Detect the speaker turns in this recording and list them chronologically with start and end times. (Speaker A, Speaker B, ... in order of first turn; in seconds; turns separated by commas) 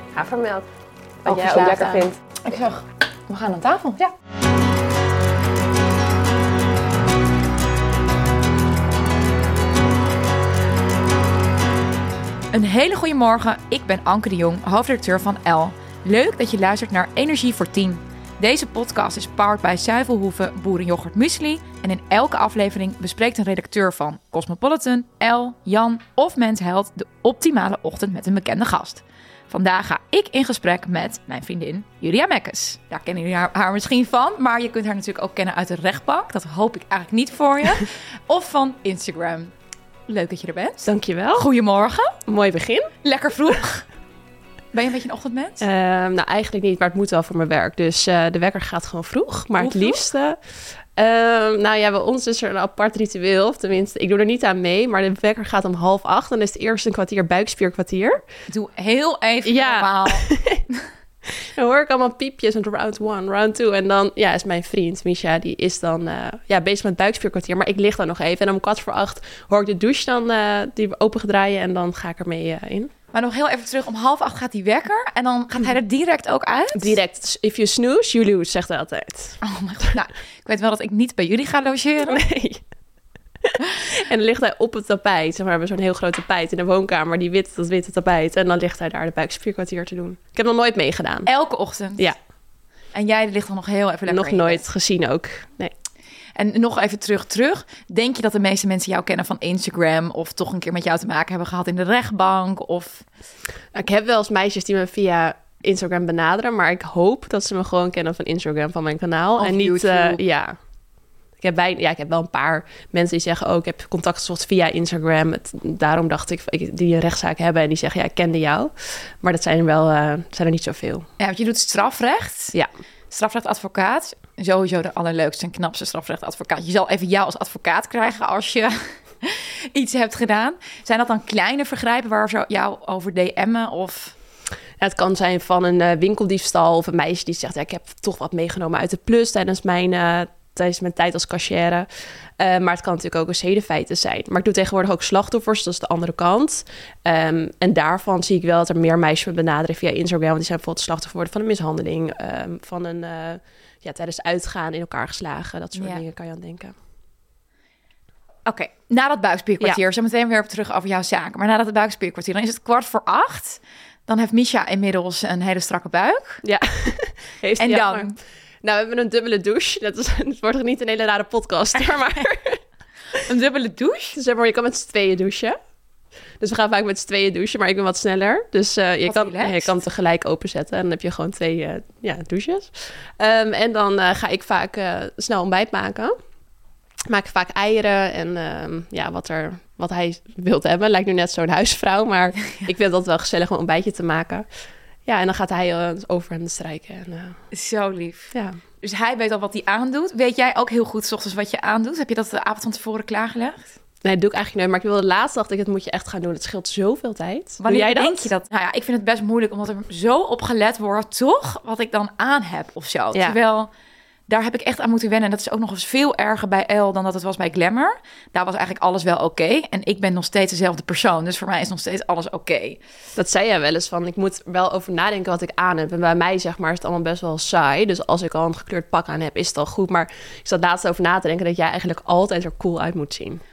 Speaker A: 0.1-0.7, Speaker A: 1.2-2.1, Speaker B: 1.2-4.1, Speaker B: 12.5-39.5, Speaker B: 40.1-42.1, Speaker A: 40.8-41.5, Speaker A: 42.3-42.9, Speaker B: 43.0-43.9, Speaker B: 44.7-45.6, Speaker A: 45.6-50.4, Speaker B: 49.6-50.0, Speaker A: 51.0-58.2, Speaker B: 58.5-60.8, Speaker A: 59.5-60.6, Speaker A: 61.4-72.9, Speaker B: 73.1-77.0, Speaker A: 76.7-79.4, Speaker B: 79.4-82.2, Speaker A: 82.1-82.6, Speaker A: 83.4-91.3, Speaker B: 91.3-92.1, Speaker B: 92.9-94.6, Speaker A: 94.1-95.7, Speaker B: 96.4-103.0, Speaker A: 103.7-110.6, Speaker B: 109.4-110.2, Speaker A: 111.4-121.1, Speaker B: 121.2-122.6, Speaker B: 123.1-134.2, Speaker A: 134.8-141.9, Speaker A: 142.4-156.8, Speaker B: 155.8-156.0, Speaker B: 158.5-166.4, Speaker A: 166.4-172.6, Speaker B: 167.6-168.2, Speaker B: 173.2-174.2, Speaker A: 174.2-175.6, Speaker A: 176.4-186.1, Speaker B: 179.1-179.7, Speaker A: 187.1-194.5, Speaker A: 195.1-197.4, Speaker B: 197.5-203.6, Speaker A: 198.3-198.6, Speaker A: 204.0-208.3, Speaker B: 207.6-213.7, Speaker B: 214.3-222.8, Speaker A: 223.2-233.4